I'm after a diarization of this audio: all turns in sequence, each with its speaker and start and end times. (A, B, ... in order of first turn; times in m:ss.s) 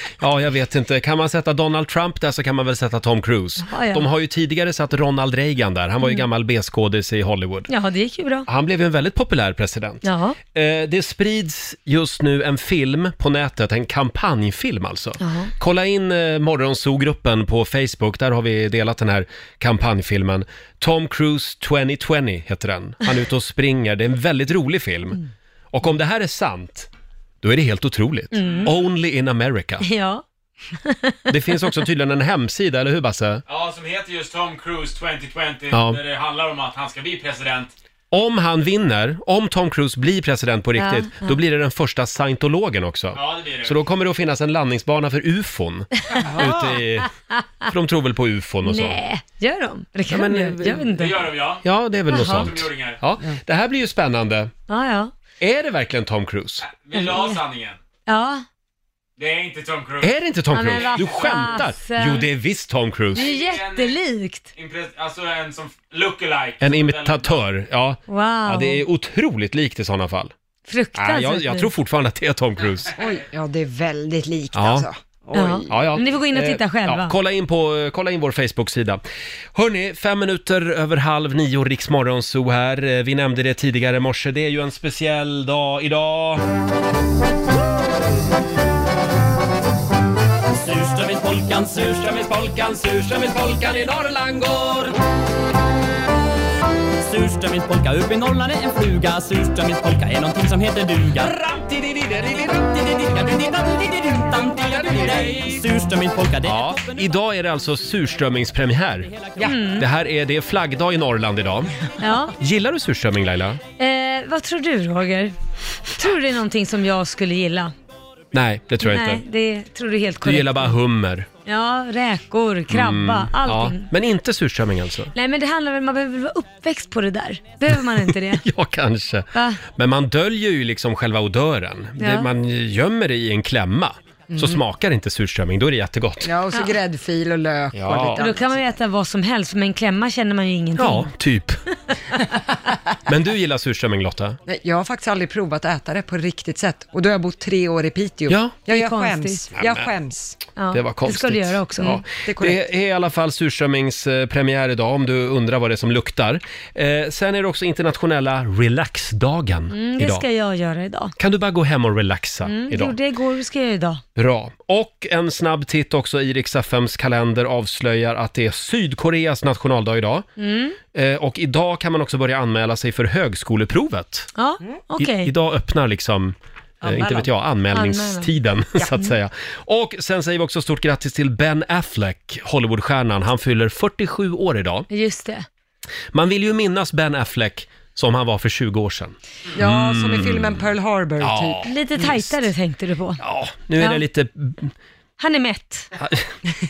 0:00.2-0:07.7 A
0:03.6-0:04.1 B
0:07.7-0:08.5 B
0:08.5-0:25.2 A
0:10.0-0:10.4 B
0:15.2-0:15.5 B
0:25.7-0:26.9 A
0:27.4-0:29.9 A
0:28.3-0:28.7 B
0:29.8-0:30.2 B
0:30.8-0:31.6 B
0:31.3-0:33.4 A
0:33.5-0:37.7 C
0:35.6-0:36.1 D
0:35.7-0:36.0 A
0:38.1-0:47.1 A
0:40.8-0:41.4 B
0:43.2-0:43.6 C
0:43.3-0:43.6 D
0:47.6-0:49.0 A
0:48.6-0:51.3 B
0:50.1-0:50.9 A
0:51.1-0:51.6 D
0:51.1-0:51.6 C
0:51.6-0:54.5 A
0:52.1-0:52.6 B
0:52.4-0:52.9 D
0:54.7-0:55.1 B
0:55.4-0:56.7 A
0:56.8-0:57.7 D
0:56.9-0:57.4 B
0:57.2-0:57.8 C
0:58.1-0:58.4 B
0:59.2-1:00.0 C
1:00.0-1:03.3 A
1:00.5-1:02.3 B
1:03.2-1:04.5 B
1:03.4-1:03.9 D
1:04.6-1:07.1 C
1:05.7-1:06.0 D
1:06.5-1:07.2 D
1:06.6-1:10.3 A
1:08.1-1:08.8 B
1:10.7-1:11.7 B
1:11.0-1:12.9 A
1:13.0-1:15.9 E
1:14.5-1:14.9 A
1:15.3-1:17.1 B
1:15.7-1:19.0 A
1:19.6-1:26.5 A
1:30.5-1:32.4 D
1:31.9-1:34.9 A
1:37.0-1:41.3 D
1:41.2-1:43.2 A
1:42.9-1:47.1 D
1:44.6-1:45.6 A
1:46.4-1:51.8 A
1:49.1-1:49.6 D
1:49.4-1:49.9 B
1:52.0-1:52.4 B
1:52.4-1:53.6 A
1:53.8-1:57.7 B
1:58.3-1:59.2 A
1:58.8-2:00.8 B
2:00.2-2:01.3 A
2:01.5-2:03.9 B
2:02.7-2:05.1 A
2:05.1-2:08.4 B
2:08.3-2:16.3 A
2:09.3-2:09.6 B
2:12.0-2:12.3 B
2:14.3-2:14.6 E
2:16.2-2:18.8 E
2:17.7-2:18.3 A
2:18.2-2:21.1 B
2:20.8-2:21.6 A
2:23.1-2:24.4 A
2:24.5-2:30.4 E
2:28.3-2:28.6 A
2:28.7-2:29.5 B
2:29.6-2:29.9 A
2:30.6-2:32.0 B
2:30.7-2:40.2 A
2:32.2-2:32.6 E
2:39.7-2:41.1 B
2:41.2-2:43.0 A
2:42.5-2:44.0 B
2:44.2-2:50.3 A
2:50.4-2:50.8 B
2:50.9-2:54.3 A
2:54.4-2:55.3 B
2:55.0-3:04.9 A
2:56.9-2:57.3 E
2:57.7-2:59.1 B
3:04.9-3:05.4 B
3:06.1-3:10.7 A
3:09.6-3:11.7 E
3:11.2-3:12.4 A
3:11.6-3:13.2 B
3:13.2-3:14.7 A
3:13.8-3:14.0 B
3:15.2-3:15.9 B
3:16.0-3:16.3 A